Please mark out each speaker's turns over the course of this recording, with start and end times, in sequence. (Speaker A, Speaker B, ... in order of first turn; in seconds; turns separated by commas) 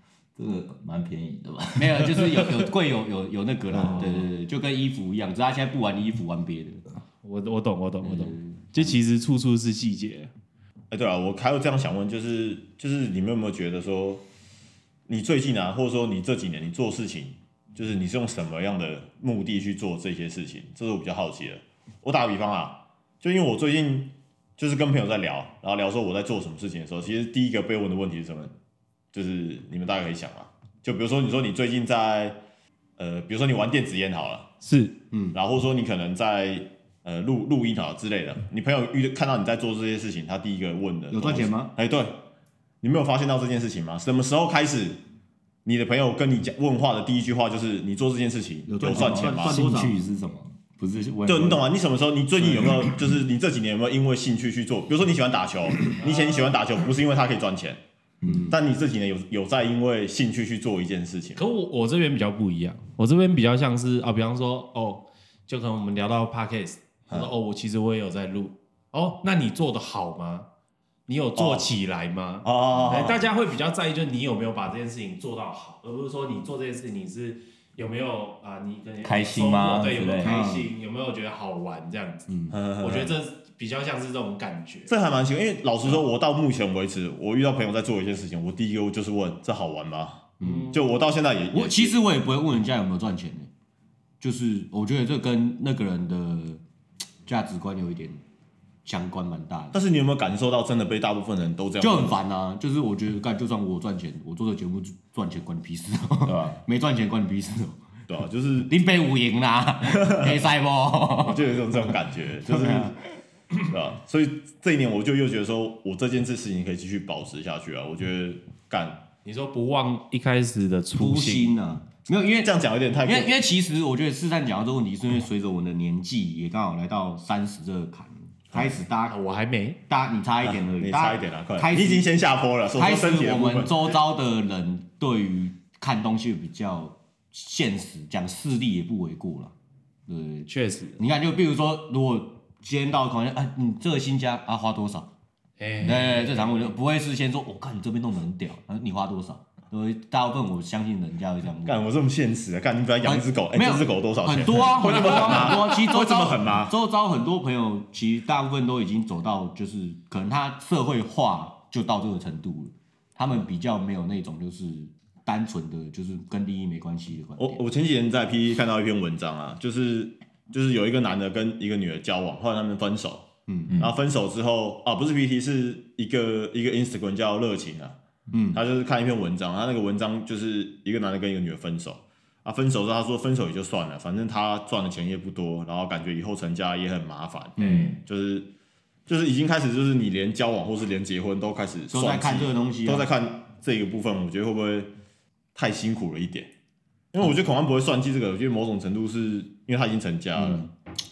Speaker A: 0.4-2.7, Speaker B: 1.8-6.8, Speaker C: 3.8-4.2, Speaker C: 7.2-10.3, Speaker B: 8.0-8.9, Speaker D: 10.9-14.2, Speaker D: 15.1-28.5, Speaker D: 29.1-32.4, Speaker D: 33.0-34.5, Speaker C: 34.6-35.0, Speaker D: 35.3-42.2, Speaker B: 41.1-41.7, Speaker D: 42.8-45.0, Speaker D: 45.6-49.6, Speaker B: 48.7-50.0, Speaker A: 48.8-51.6, Speaker D: 51.2-57.8, Speaker A: 52.5-53.0, Speaker C: 56.0-56.3, Speaker A: 58.2-58.5, Speaker B: 58.3-58.5, Speaker D: 58.5-61.4, Speaker C: 61.4-70.5, Speaker C: 71.1-84.9, Speaker D: 71.3-71.7, Speaker D: 72.4-73.3, Speaker A: 79.0-80.4, Speaker B: 80.2-80.7, Speaker B: 82.3-82.5, Speaker D: 82.5-83.1, Speaker D: 84.9-92.0, Speaker B: 90.4-90.7, Speaker C: 90.4-90.8, Speaker B: 91.5-93.5, Speaker B: 94.2-96.6, Speaker B: 97.2-98.2, Speaker B: 98.8-99.8, Speaker D: 99.7-102.2, Speaker B: 101.8-107.8, Speaker A: 106.2-106.6, Speaker D: 108.1-108.8, Speaker B: 108.7-111.4, Speaker D: 109.9-110.4, Speaker D: 111.2-113.0, Speaker B: 112.5-113.0, Speaker D: 113.7-119.0, Speaker C: 119.2-121.6, Speaker B: 121.0-129.1, Speaker D: 122.4-123.3, Speaker C: 129.1-129.8, Speaker B: 129.9-132.1, Speaker D: 130.7-133.9, Speaker B: 132.7-139.5, Speaker B: 140.1-145.1, Speaker C: 140.5-141.0, Speaker C: 145.6-146.7, Speaker B: 145.8-151.8, Speaker D: 151.6-156.7, Speaker B: 153.0-167.6, Speaker C: 154.8-155.6, Speaker D: 167.4-178.0, Speaker B: 173.5-173.7, Speaker B: 178.3-178.6, Speaker D: 178.5-188.5, Speaker B: 187.6-188.0, Speaker D: 189.1-194.9, Speaker B: 191.9-193.1, Speaker D: 195.5-196.5, Speaker D: 197.1-200.6, Speaker B: 200.3-200.7